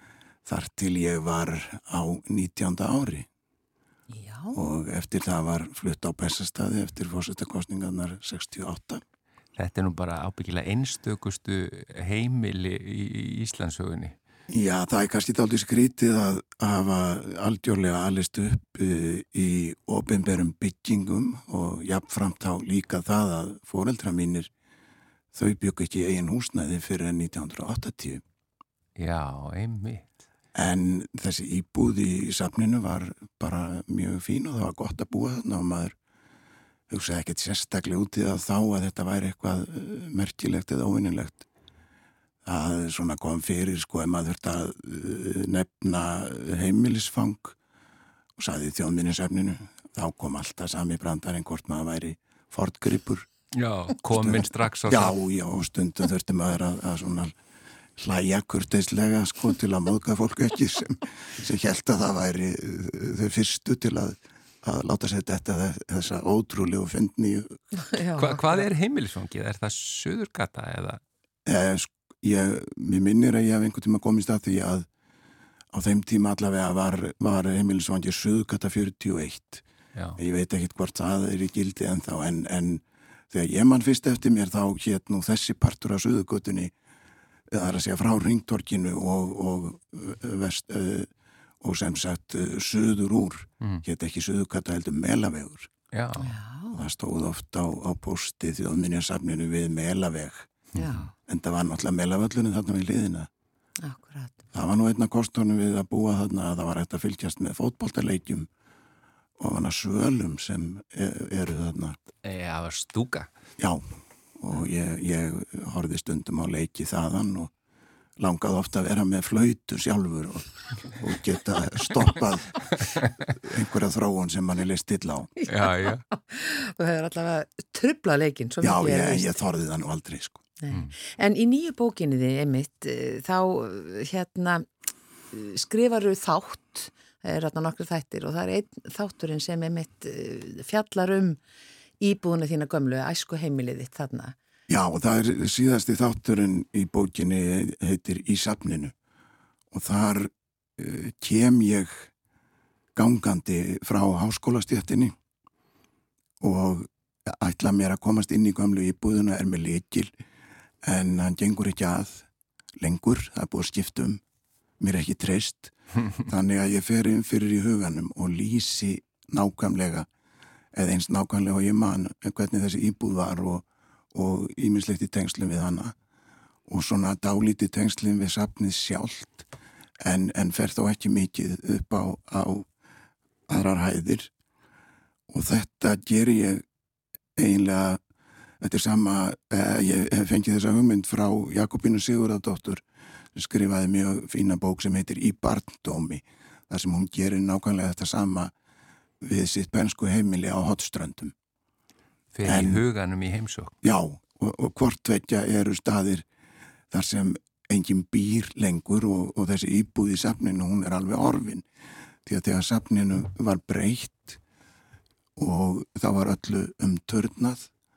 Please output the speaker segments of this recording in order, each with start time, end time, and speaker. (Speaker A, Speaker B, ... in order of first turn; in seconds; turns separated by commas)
Speaker A: 0.4-3.3, Speaker B: 4.1-4.6, Speaker A: 4.5-9.0, Speaker C: 9.6-14.1, Speaker A: 14.5-24.5, Speaker A: 25.3-28.2, Speaker C: 28.9-30.1, Speaker A: 30.5-36.0, Speaker A: 36.9-41.5, Speaker A: 42.4-47.6, Speaker A: 48.4-53.3, Speaker C: 53.5-55.1, Speaker A: 54.1-57.3, Speaker A: 58.0-67.6, Speaker B: 67.8-68.7, Speaker C: 68.2-71.0, Speaker A: 71.5-74.9, Speaker A: 75.7-79.6, Speaker A: 80.2-86.7, Speaker A: 87.5-95.7, Speaker C: 95.9-96.3, Speaker B: 96.2-96.8, Speaker A: 96.7-100.5, Speaker B: 100.8-101.1, Speaker A: 101.3-103.3, Speaker B: 103.8-104.4, Speaker A: 104.5-108.5, Speaker A: 109.4-112.0, Speaker C: 112.2-113.3, Speaker A: 113.6-117.5, Speaker A: 118.2-122.8, Speaker A: 123.4-125.3, Speaker C: 125.5-126.0, Speaker B: 125.6-129.3, Speaker A: 128.6-130.4, Speaker B: 130.6-134.7, Speaker B: 135.3-141.4, Speaker B: 142.0-144.3, Speaker A: 144.7-148.9, Speaker A: 149.7-152.1, Speaker A: 152.9-155.1, Speaker A: 156.4-160.1, Speaker A: 160.8-162.3, Speaker A: 162.8-164.2, Speaker A: 164.8-170.1, Speaker A: 170.7-175.9, Speaker A: 176.7-179.5, Speaker A: 180.0-182.7, Speaker A: 183.5-184.3, Speaker A: 185.3-186.6, Speaker A: 187.3-188.0, Speaker A: 188.6-192.8, Speaker A: 193.3-198.5, Speaker A: 199.2-201.3, Speaker C: 202.3-203.7, Speaker A: 202.4-202.8, Speaker A: 203.8-206.2, Speaker A: 206.9-211.6, Speaker A: 212.2-214.4, Speaker A: 215.3-217.7